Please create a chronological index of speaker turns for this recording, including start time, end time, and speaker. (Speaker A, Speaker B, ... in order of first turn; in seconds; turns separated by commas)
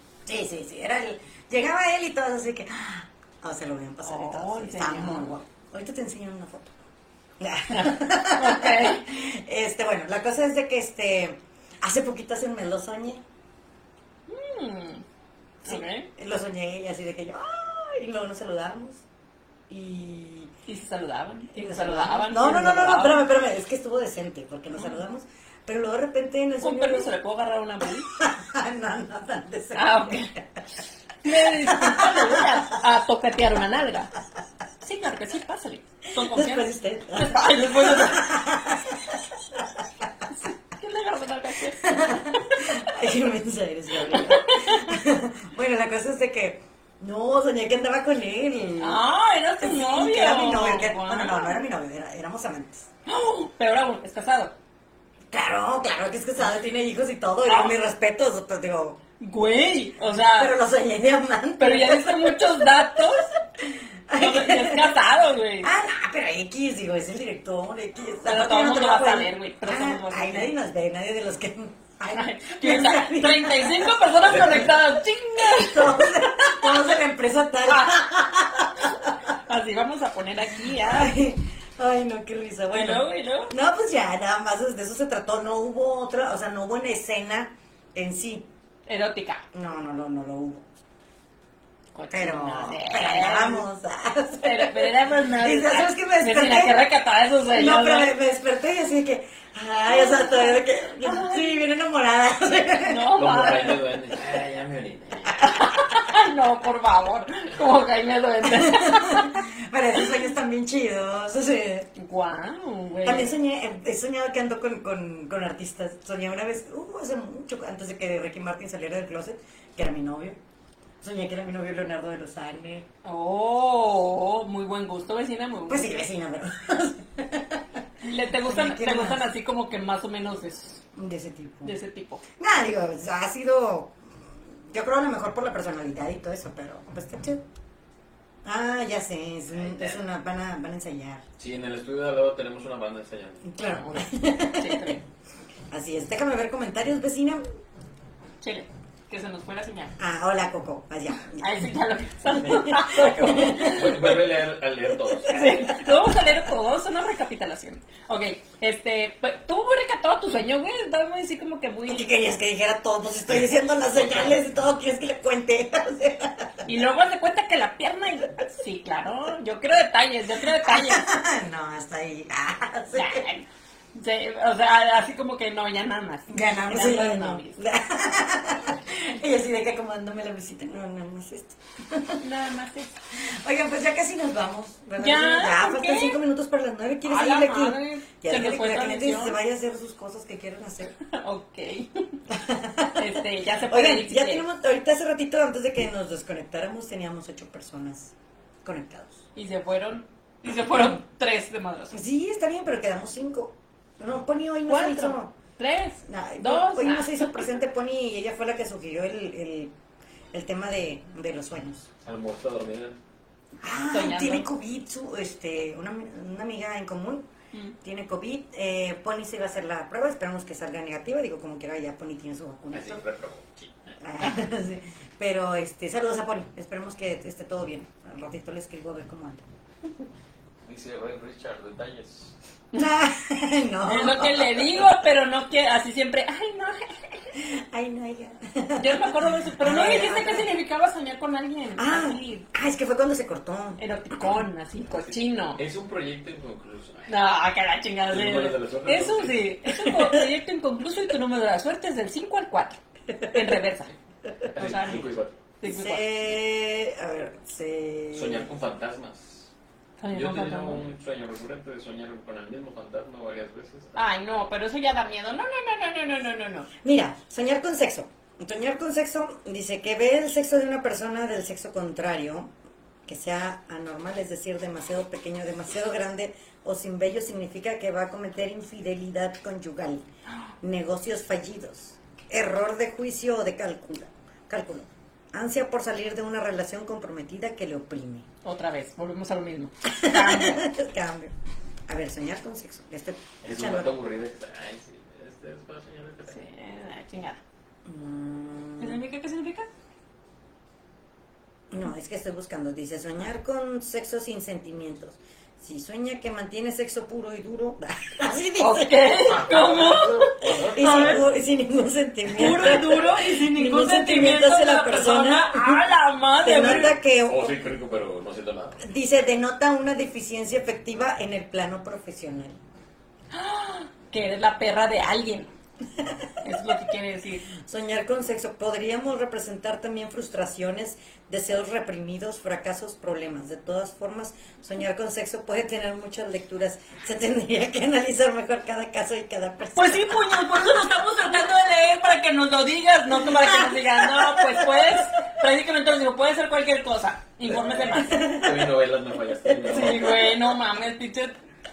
Speaker A: 0.3-6.8, Speaker B: 4.0-5.3, Speaker A: 7.4-13.2, Speaker B: 7.7-9.1, Speaker B: 14.3-15.0, Speaker A: 15.6-19.0, Speaker B: 15.7-16.1, Speaker A: 19.7-20.5, Speaker B: 20.7-23.2, Speaker A: 21.5-27.1, Speaker B: 26.6-28.1, Speaker A: 28.1-30.5, Speaker B: 29.8-30.3, Speaker B: 31.2-34.1, Speaker A: 31.5-32.8, Speaker B: 34.8-38.3, Speaker A: 36.1-39.8, Speaker B: 40.5-42.6, Speaker A: 41.8-49.0, Speaker B: 44.0-45.0, Speaker B: 48.8-51.6, Speaker A: 49.6-52.9, Speaker B: 53.1-54.5, Speaker A: 55.3-59.0, Speaker B: 57.5-57.8, Speaker B: 59.2-60.5, Speaker A: 60.4-65.0, Speaker B: 61.6-63.3, Speaker B: 64.2-65.7, Speaker A: 65.6-74.8, Speaker B: 68.3-70.5, Speaker B: 72.1-76.9, Speaker A: 75.4-79.1, Speaker B: 77.7-78.0, Speaker B: 79.5-81.2, Speaker A: 80.7-88.5, Speaker B: 82.7-83.5, Speaker B: 88.9-89.5, Speaker A: 89.5-90.7, Speaker B: 92.0-93.7, Speaker A: 92.1-96.8, Speaker B: 94.4-98.1, Speaker A: 97.5-103.1, Speaker B: 99.9-101.6, Speaker B: 102.8-103.8, Speaker C: 103.2-105.5, Speaker B: 105.4-109.5, Speaker A: 108.4-111.9, Speaker B: 112.0-113.3, Speaker A: 113.0-120.4, Speaker A: 121.0-122.9, Speaker B: 123.0-126.1, Speaker A: 125.7-127.7, Speaker B: 128.0-130.8, Speaker A: 128.3-129.2, Speaker A: 130.9-131.8, Speaker B: 131.7-132.2, Speaker A: 132.4-137.4, Speaker A: 138.4-141.2, Speaker C: 139.6-140.0, Speaker C: 141.4-143.6, Speaker A: 143.4-145.0, Speaker B: 144.5-145.0, Speaker A: 145.7-147.4, Speaker B: 148.4-149.9, Speaker A: 150.0-151.5, Speaker B: 151.4-154.1, Speaker A: 152.3-154.2, Speaker C: 153.0-155.7, Speaker B: 155.3-162.1, Speaker A: 155.3-156.1, Speaker A: 161.9-166.7, Speaker C: 163.3-164.4, Speaker B: 166.7-171.1, Speaker A: 170.4-173.3, Speaker B: 172.9-177.6, Speaker A: 176.3-182.2, Speaker B: 182.2-182.9, Speaker A: 183.2-191.0, Speaker B: 185.0-186.2, Speaker B: 187.1-189.4, Speaker B: 191.0-192.2, Speaker A: 192.3-199.2, Speaker B: 193.0-194.5, Speaker B: 199.4-202.0, Speaker A: 201.9-205.3, Speaker B: 204.7-207.4, Speaker A: 206.1-209.7, Speaker A: 210.3-211.9, Speaker C: 212.0-213.0, Speaker A: 213.6-217.3, Speaker B: 213.9-214.5, Speaker A: 217.8-223.0, Speaker C: 222.7-223.9, Speaker A: 224.0-229.4, Speaker C: 230.7-232.3, Speaker A: 232.7-234.8, Speaker B: 233.9-237.3, Speaker A: 237.4-240.5, Speaker B: 238.8-242.5, Speaker A: 241.8-243.8, Speaker B: 243.8-245.6, Speaker C: 245.1-247.1, Speaker B: 247.1-253.9, Speaker C: 248.1-249.5, Speaker A: 249.7-250.3, Speaker A: 253.2-253.6, Speaker C: 254.5-255.4, Speaker B: 254.6-255.0, Speaker B: 255.6-256.1, Speaker A: 255.6-258.5, Speaker C: 258.1-259.5, Speaker B: 260.0-260.8, Speaker C: 260.1-263.9, Speaker B: 263.9-266.7, Speaker A: 266.8-272.5, Speaker A: 273.1-280.1, Speaker A: 280.6-288.3, Speaker B: 288.4-290.7, Speaker A: 289.9-291.3, Speaker A: 291.9-293.9, Speaker C: 293.4-296.4, Speaker B: 296.3-297.4, Speaker A: 297.9-299.0, Speaker B: 298.8-299.7, Speaker A: 301.7-309.6, Speaker B: 308.6-311.1, Speaker C: 309.3-311.3, Speaker A: 310.4-315.9, Speaker B: 312.3-317.0, Speaker A: 316.4-317.5, Speaker C: 317.3-318.8, Speaker A: 318.8-322.6, Speaker B: 323.3-325.5, Speaker A: 326.0-326.3, Speaker B: 326.4-327.5, Speaker A: 327.5-340.7, Speaker B: 339.8-348.2, Speaker A: 343.2-345.0, Speaker C: 347.5-350.3, Speaker A: 347.9-348.7, Speaker A: 349.4-350.3, Speaker B: 349.7-351.3